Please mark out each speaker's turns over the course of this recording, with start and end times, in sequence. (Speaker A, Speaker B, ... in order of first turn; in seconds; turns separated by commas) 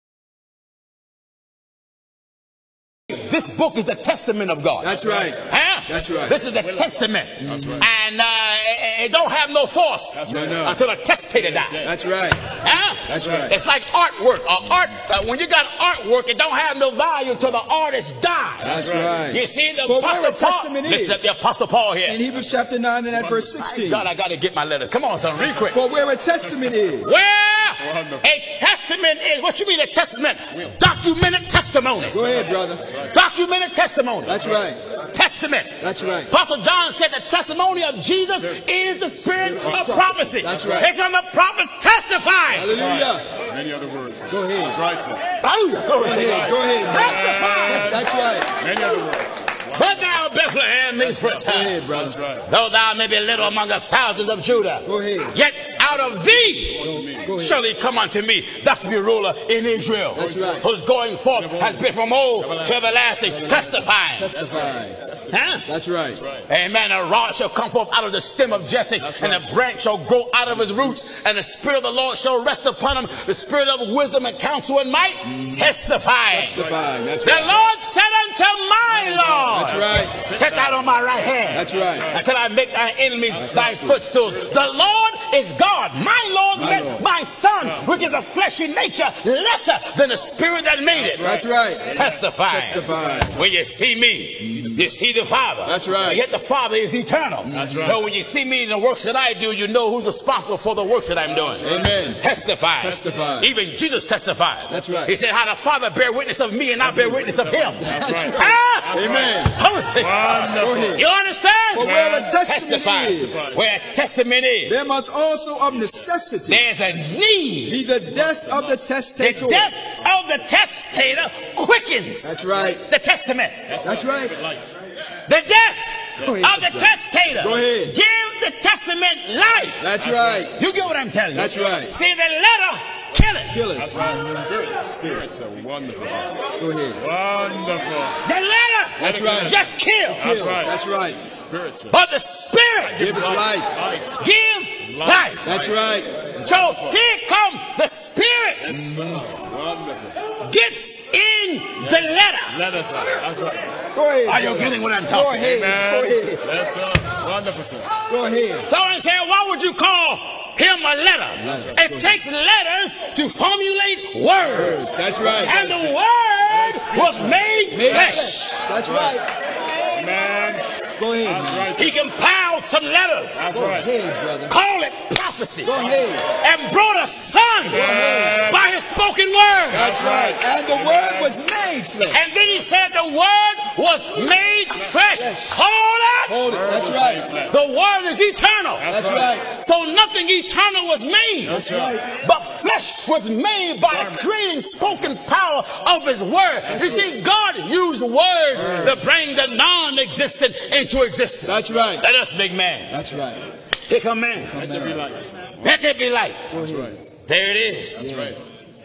Speaker A: 3.1-4.9, Speaker B: 4.8-6.4, Speaker C: 5.0-5.3, Speaker A: 5.5-11.8, Speaker B: 7.4-7.8, Speaker C: 7.4-7.9, Speaker C: 10.2-10.8, Speaker B: 10.3-10.8, Speaker C: 11.3-12.0, Speaker B: 11.8-12.4, Speaker A: 12.6-18.8, Speaker B: 13.1-13.6, Speaker C: 13.1-13.5, Speaker C: 18.6-19.3, Speaker B: 18.6-21.3, Speaker A: 19.3-22.2, Speaker B: 22.1-24.1, Speaker C: 23.1-23.5, Speaker A: 23.6-25.8, Speaker B: 25.7-27.1, Speaker A: 27.0-32.4, Speaker C: 27.8-28.3, Speaker B: 32.1-32.8, Speaker C: 32.3-33.2, Speaker A: 33.1-34.5, Speaker B: 34.3-34.8, Speaker A: 35.1-42.7, Speaker B: 35.8-36.3, Speaker C: 39.2-40.9, Speaker B: 40.4-40.9, Speaker B: 42.5-43.2, Speaker C: 42.6-45.2, Speaker B: 44.3-44.8, Speaker A: 45.4-48.0, Speaker B: 46.0-48.5, Speaker C: 46.9-50.0, Speaker A: 49.7-51.8, Speaker C: 51.0-52.5, Speaker B: 51.5-52.2, Speaker A: 52.5-64.3, Speaker B: 54.9-55.4, Speaker C: 56.5-57.4, Speaker B: 56.8-57.6, Speaker B: 60.1-60.6, Speaker C: 60.2-60.6, Speaker C: 61.3-63.8, Speaker B: 63.5-65.0, Speaker C: 64.3-65.5, Speaker A: 65.3-65.7, Speaker B: 65.7-66.2, Speaker C: 66.1-66.5, Speaker A: 66.5-76.6, Speaker C: 69.0-69.5, Speaker C: 70.6-70.9, Speaker B: 75.3-75.7, Speaker B: 76.3-77.6, Speaker C: 76.3-77.6, Speaker A: 77.2-91.4, Speaker C: 78.9-82.0, Speaker B: 79.5-80.2, Speaker B: 81.5-82.1, Speaker C: 83.3-84.6, Speaker B: 83.3-84.0, Speaker B: 86.6-87.0, Speaker C: 87.6-88.1, Speaker C: 90.9-93.3, Speaker B: 91.2-91.9, Speaker A: 91.9-101.7, Speaker B: 92.5-93.3, Speaker B: 95.7-96.2, Speaker C: 97.5-98.0, Speaker C: 101.6-102.1, Speaker B: 101.6-102.2, Speaker A: 102.2-114.8, Speaker B: 102.8-103.5, Speaker B: 104.7-105.1, Speaker C: 106.8-109.5, Speaker B: 107.8-109.5, Speaker C: 110.0-111.0, Speaker B: 110.6-111.0, Speaker B: 111.7-113.6, Speaker C: 111.8-112.3, Speaker C: 113.1-113.6, Speaker B: 114.7-116.7, Speaker A: 116.5-117.8, Speaker B: 117.7-119.7, Speaker C: 118.1-118.8, Speaker A: 119.2-123.7, Speaker B: 122.2-122.8, Speaker C: 123.7-124.7, Speaker B: 123.8-124.3, Speaker A: 125.3-129.9, Speaker B: 126.2-128.0, Speaker B: 129.8-130.5, Speaker C: 129.8-130.5, Speaker A: 130.5-133.6, Speaker B: 131.3-131.9, Speaker C: 131.5-131.8, Speaker B: 133.5-135.2, Speaker C: 133.8-136.3, Speaker B: 136.6-137.0, Speaker C: 137.0-138.2, Speaker A: 138.2-140.3, Speaker B: 139.0-139.6, Speaker C: 139.0-142.0, Speaker B: 140.2-141.2, Speaker A: 141.9-143.2, Speaker C: 142.9-144.2, Speaker B: 143.0-143.7, Speaker A: 144.2-145.5, Speaker C: 144.9-147.0, Speaker B: 145.4-146.5, Speaker A: 146.4-148.9, Speaker C: 148.7-150.2, Speaker A: 150.3-152.6, Speaker C: 151.8-153.8, Speaker B: 153.9-156.4, Speaker A: 154.3-155.4, Speaker C: 155.3-157.9, Speaker B: 158.1-158.7, Speaker A: 158.7-164.9, Speaker B: 161.4-162.2, Speaker B: 164.5-165.6, Speaker C: 164.9-169.2, Speaker A: 165.4-168.6, Speaker B: 167.7-169.3, Speaker C: 169.9-170.7, Speaker B: 171.0-171.7, Speaker C: 171.2-172.0, Speaker A: 171.8-173.7, Speaker C: 173.3-173.9, Speaker B: 173.5-174.5, Speaker A: 174.5-179.9, Speaker B: 175.6-176.3, Speaker C: 177.7-178.7, Speaker B: 177.7-178.4, Speaker B: 179.7-182.2, Speaker C: 179.7-181.4, Speaker A: 182.1-186.4, Speaker B: 185.1-185.6, Speaker B: 186.3-187.2, Speaker C: 186.4-187.6, Speaker A: 187.5-202.9, Speaker C: 188.8-189.4, Speaker B: 188.9-189.4, Speaker C: 191.5-192.0, Speaker B: 191.5-192.1, Speaker C: 193.9-194.3, Speaker B: 196.7-197.1, Speaker B: 198.5-199.1, Speaker B: 201.5-202.0, Speaker B: 202.9-203.4, Speaker A: 203.9-204.6, Speaker C: 204.5-205.6, Speaker B: 204.5-205.0, Speaker A: 205.6-206.5, Speaker B: 206.5-207.0, Speaker C: 206.5-207.0, Speaker A: 207.3-208.1, Speaker C: 208.0-208.4, Speaker B: 208.0-208.3